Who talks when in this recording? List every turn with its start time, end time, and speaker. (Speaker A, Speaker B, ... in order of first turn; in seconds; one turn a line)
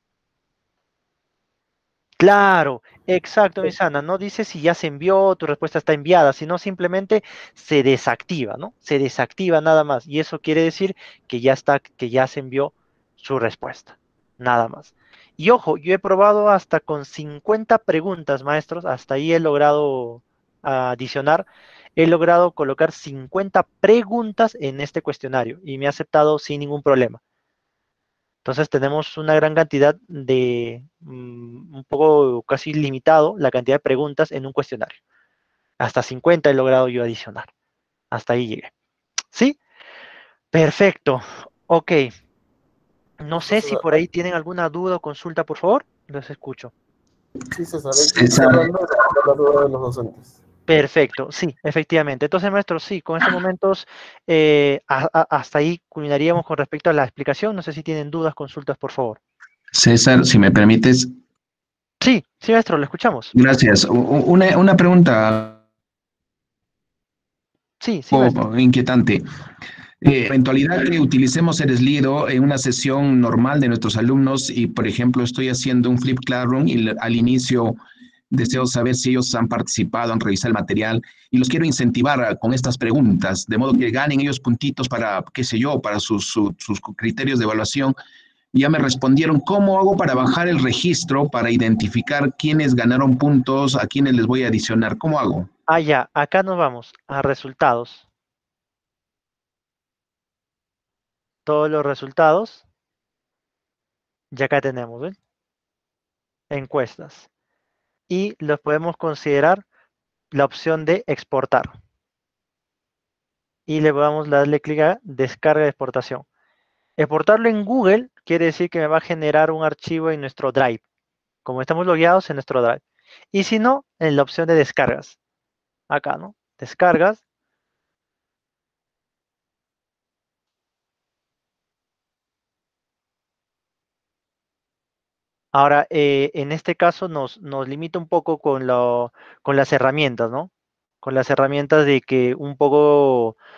Speaker A: 2.2-27.2
Speaker A: 28.4-35.0
Speaker A: 35.8-37.5
Speaker A: 38.1-38.7
Speaker A: 40.5-42.1
Speaker A: 43.2-46.7
Speaker B: 43.5-43.9
Speaker B: 47.5-50.3
Speaker C: 47.9-48.7
Speaker A: 50.7-59.2
Speaker C: 59.7-61.1
Speaker A: 62.0-63.3
Speaker C: 63.3-65.6
Speaker A: 67.8-68.4
Speaker C: 68.1-69.2
Speaker C: 70.0-77.8
Speaker C: 78.3-87.9
Speaker C: 88.5-95.5
Speaker A: 95.7-98.0
Speaker A: 101.5-102.6
Speaker A: 104.3-105.2
Speaker A: 106.5-107.3
Speaker A: 108.1-109.6
Speaker A: 110.3-111.8
Speaker A: 113.7-116.2
Speaker A: 117.0-120.8
Speaker A: 121.4-122.8
Speaker A: 123.3-125.2
Speaker A: 125.9-127.2
Speaker A: 135.5-140.5
Speaker A: 141.0-143.4